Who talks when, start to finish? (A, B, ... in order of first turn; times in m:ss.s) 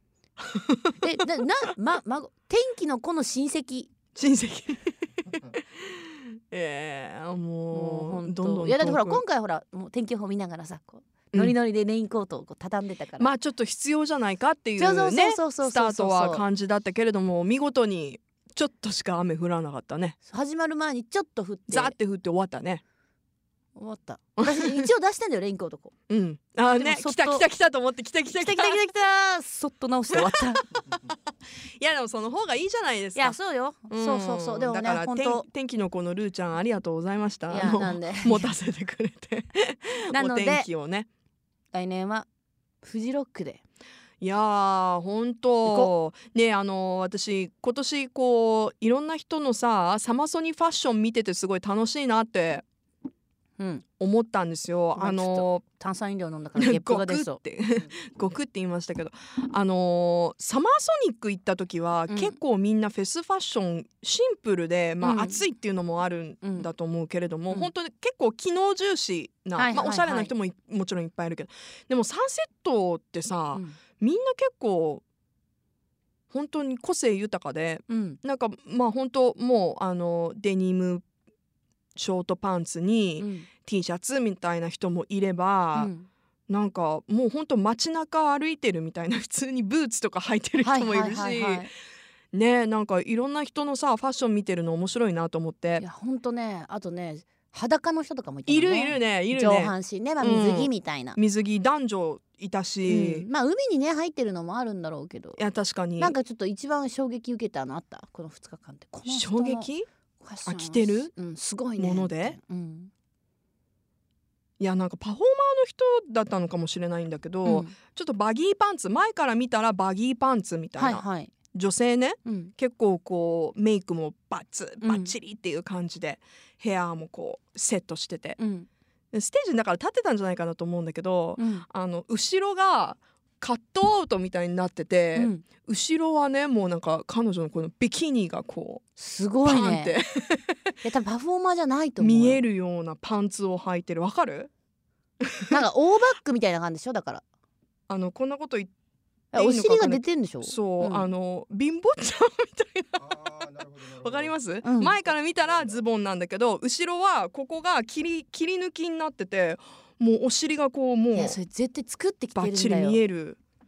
0:00.4-0:01.0 A
0:01.0-0:03.9 B
0:04.1-0:04.9 A
0:05.4-0:09.2 A
0:07.7-0:13.3 B
0:13.2-0:20.2 A
0:14.8-0:16.4 B
0:20.3-0:21.9 B
0:21.7-0:22.8 A
0:23.8-0:25.9 B
0:24.4-0:24.8 A
0:26.1-0:28.8 A
0:26.8-0:27.4 B
0:28.3-0:30.6 B
0:31.8-0:33.4 A
0:33.1-0:35.4 B
0:33.9-0:41.1 A
0:37.5-0:38.5 B
0:40.1-0:40.7 B
0:41.7-0:42.3 B
0:42.8-0:43.6 B
0:44.2-0:52.6 A
0:45.6-0:45.9 B
0:53.6-0:53.8 B
0:54.0-0:55.6 A
0:54.9-0:57.4 B
0:56.5-1:15.0 A
1:02.1-1:02.4 B
1:05.0-1:05.4 B
1:06.4-1:06.7 B
1:09.5-1:10.3 B
1:13.5-1:13.8 B
1:16.3-1:21.0 A
1:17.9-1:18.2 B
1:21.9-1:25.9 A
1:23.2-1:23.5 B
1:25.7-1:26.1 B
1:26.5-1:31.7 A
1:30.6-1:31.7 B
1:32.3-1:35.8 A
1:35.8-1:41.2 B
1:38.5-1:43.2 A
1:42.9-1:45.4 B
1:45.4-1:46.2 A
1:46.0-1:49.7 B
1:49.0-1:49.9 A
1:50.2-1:52.9 B
1:50.4-1:51.1 A
1:51.8-1:52.4 A
1:54.6-2:08.4 A
1:57.4-1:57.8 B
2:00.8-2:01.3 B
2:02.2-2:02.5 B
2:04.8-2:05.1 B
2:08.4-2:08.7 B
2:09.1-2:18.8 A
2:11.4-2:11.6 B
2:15.1-2:15.4 B
2:19.0-2:19.9 B
2:19.4-2:20.7 A
2:20.8-2:22.4 B
2:22.0-2:24.5 A
2:25.5-2:27.2 B
2:27.9-2:28.7 A
2:29.3-2:31.1 B
2:29.3-2:41.4 A
2:34.6-2:34.9 B
2:41.1-2:43.0 B
2:42.3-2:43.4 A